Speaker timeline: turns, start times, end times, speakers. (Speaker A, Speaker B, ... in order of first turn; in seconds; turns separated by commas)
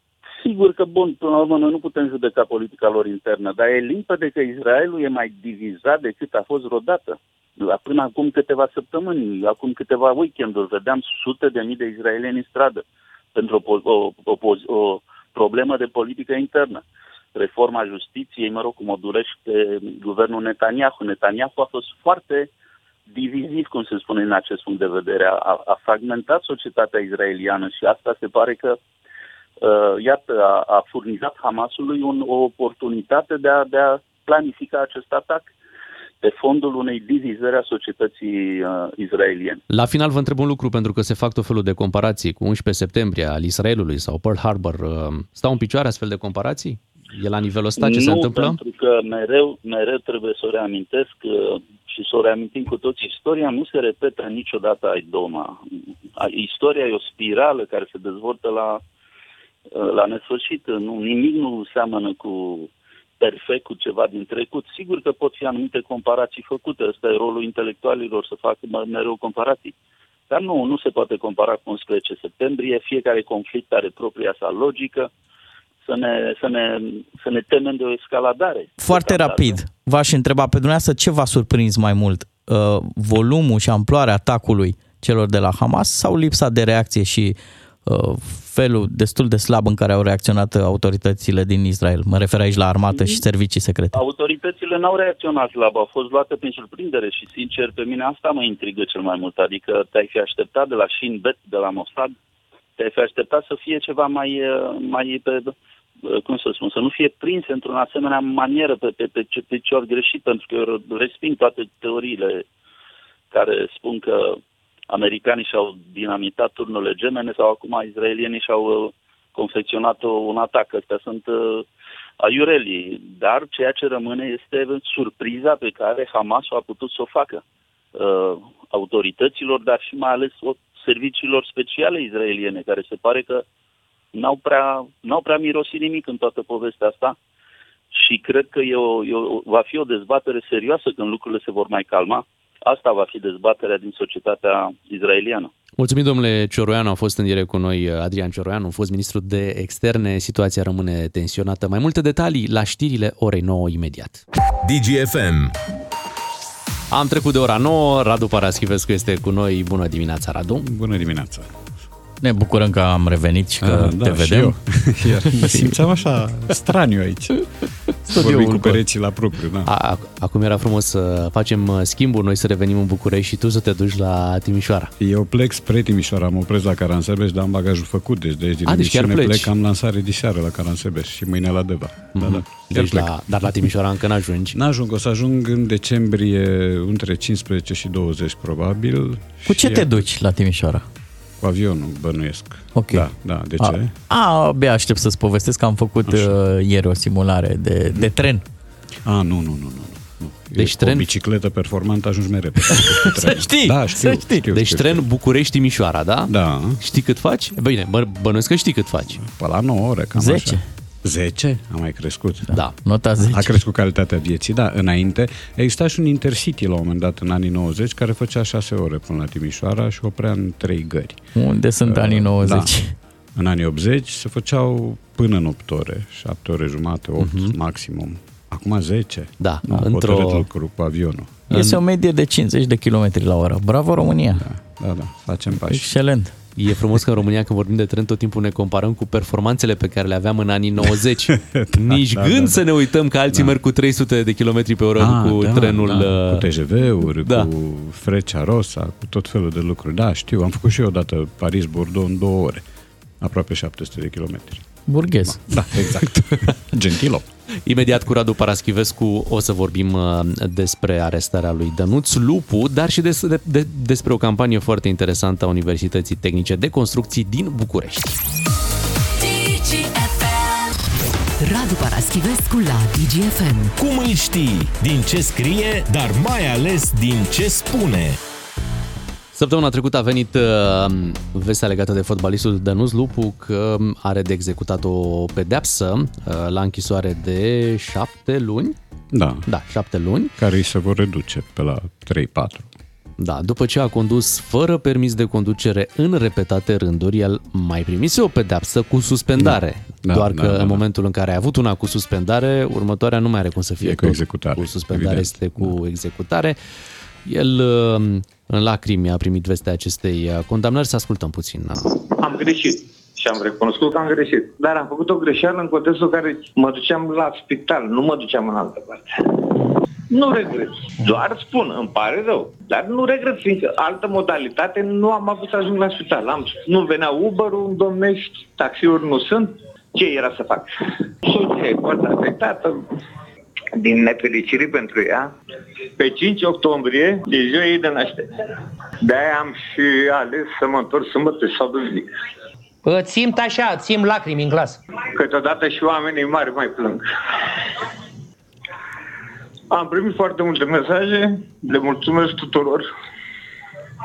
Speaker A: 0.4-12.8, Speaker A: 13.3-16.8, Speaker A: 17.3-22.5, Speaker A: 23.1-28.8, Speaker A: 29.6-35.5, Speaker A: 36.2-39.6, Speaker B: 39.7-48.6, Speaker A: 47.8-55.5, Speaker A: 56.2-58.8, Speaker A: 59.7-69.7, Speaker A: 70.3-75.1, Speaker A: 75.8-79.6, Speaker C: 78.8-94.0, Speaker A: 92.9-93.2, Speaker A: 93.9-102.1, Speaker A: 102.8-105.5, Speaker A: 106.1-112.4, Speaker A: 113.3-114.4, Speaker A: 114.9-121.6, Speaker A: 122.2-127.4, Speaker A: 127.9-133.4, Speaker A: 134.1-137.2, Speaker A: 137.9-145.5, Speaker B: 145.8-154.2, Speaker D: 154.6-155.5, Speaker B: 156.9-160.7, Speaker E: 160.6-161.5, Speaker C: 162.2-164.6, Speaker E: 163.6-167.4, Speaker C: 165.3-165.8, Speaker E: 168.1-169.7, Speaker C: 168.1-168.8, Speaker B: 169.6-174.9, Speaker E: 175.0-183.1, Speaker B: 178.7-179.5, Speaker B: 182.1-184.6, Speaker E: 184.5-190.1, Speaker C: 189.4-190.8, Speaker E: 191.4-193.9, Speaker C: 192.7-193.1, Speaker C: 193.6-198.4, Speaker E: 196.0-196.3, Speaker E: 199.0-205.1, Speaker B: 200.6-201.1, Speaker C: 202.7-204.5, Speaker B: 204.5-209.2, Speaker E: 206.3-206.8, Speaker E: 209.1-212.5, Speaker C: 210.1-210.6, Speaker C: 212.5-213.6, Speaker E: 213.2-221.2, Speaker C: 221.3-222.9, Speaker E: 221.8-222.7, Speaker E: 223.3-231.5, Speaker B: 227.2-227.5, Speaker B: 229.4-230.5, Speaker C: 231.5-234.4, Speaker B: 231.5-231.8, Speaker E: 234.3-236.0, Speaker C: 235.6-236.3, Speaker B: 236.6-246.5, Speaker E: 241.0-242.6, Speaker E: 243.3-243.6, Speaker E: 245.0-252.6, Speaker B: 247.2-247.5, Speaker E: 253.2-257.2, Speaker C: 254.9-255.4, Speaker B: 257.6-268.2, Speaker F: 269.2-270.7, Speaker F: 271.4-273.7, Speaker D: 273.8-278.2, Speaker B: 279.3-288.7, Speaker E: 289.1-289.5, Speaker B: 289.4-290.3, Speaker E: 290.4-292.7, Speaker B: 293.2-306.6, Speaker E: 299.4-300.8, Speaker E: 303.8-305.8, Speaker B: 307.2-311.8, Speaker G: 312.1-332.9, Speaker G: 333.7-335.3, Speaker G: 336.0-342.1, Speaker H: 342.8-344.8, Speaker G: 345.0-347.1, Speaker G: 349.7-352.9